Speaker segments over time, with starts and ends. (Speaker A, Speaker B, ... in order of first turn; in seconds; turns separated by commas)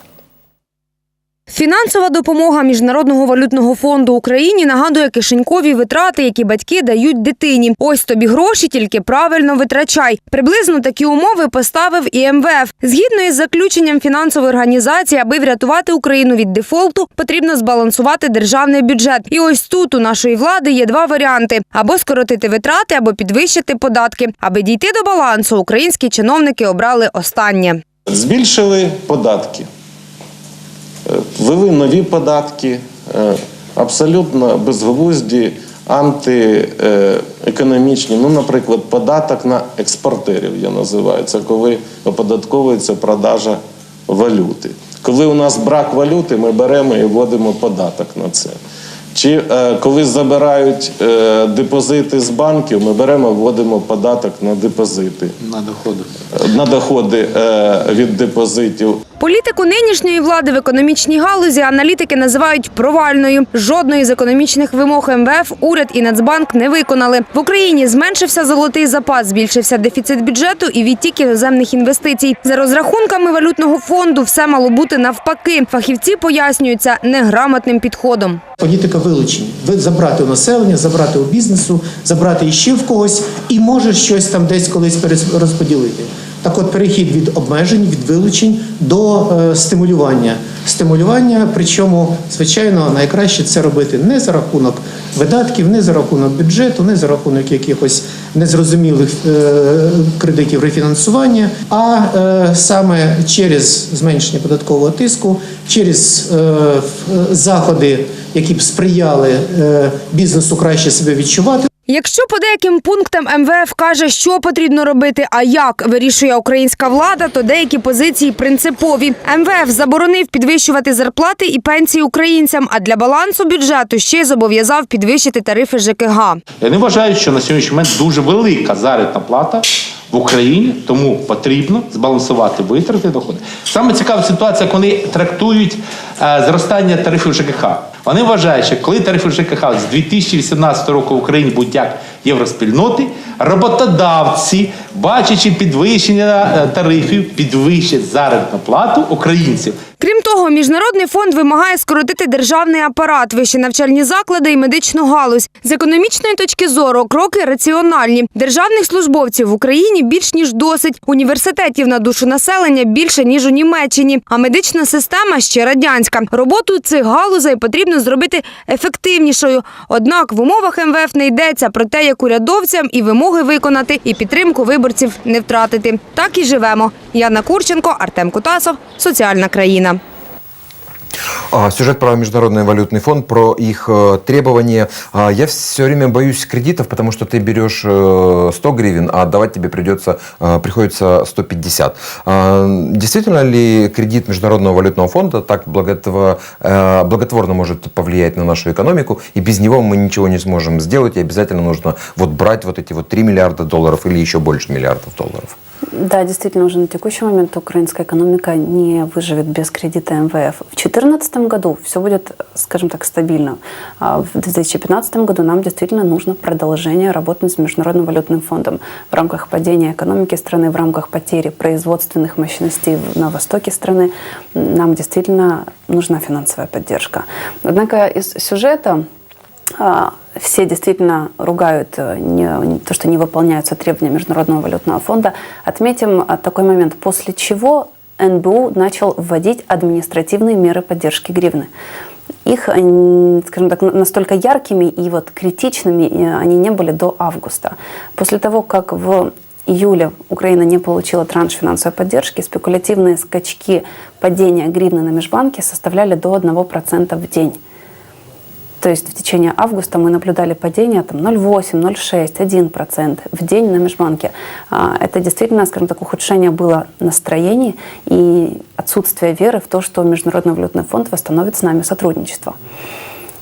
Speaker A: 1.5-27.8, Speaker B: 28.1-29.7, Speaker B: 31.1-48.6, Speaker B: 49.1-55.4, Speaker C: 55.4-56.1, Speaker B: 56.3-59.0, Speaker A: 59.2-78.4, Speaker D: 78.6-111.7, Speaker A: 111.9-126.4, Speaker C: 126.6-149.8, Speaker A: 150.0-180.0, Speaker E: 181.5-205.6, Speaker F: 205.9-229.1, Speaker F: 229.8-241.7, Speaker F: 242.4-257.6, Speaker F: 258.8-272.6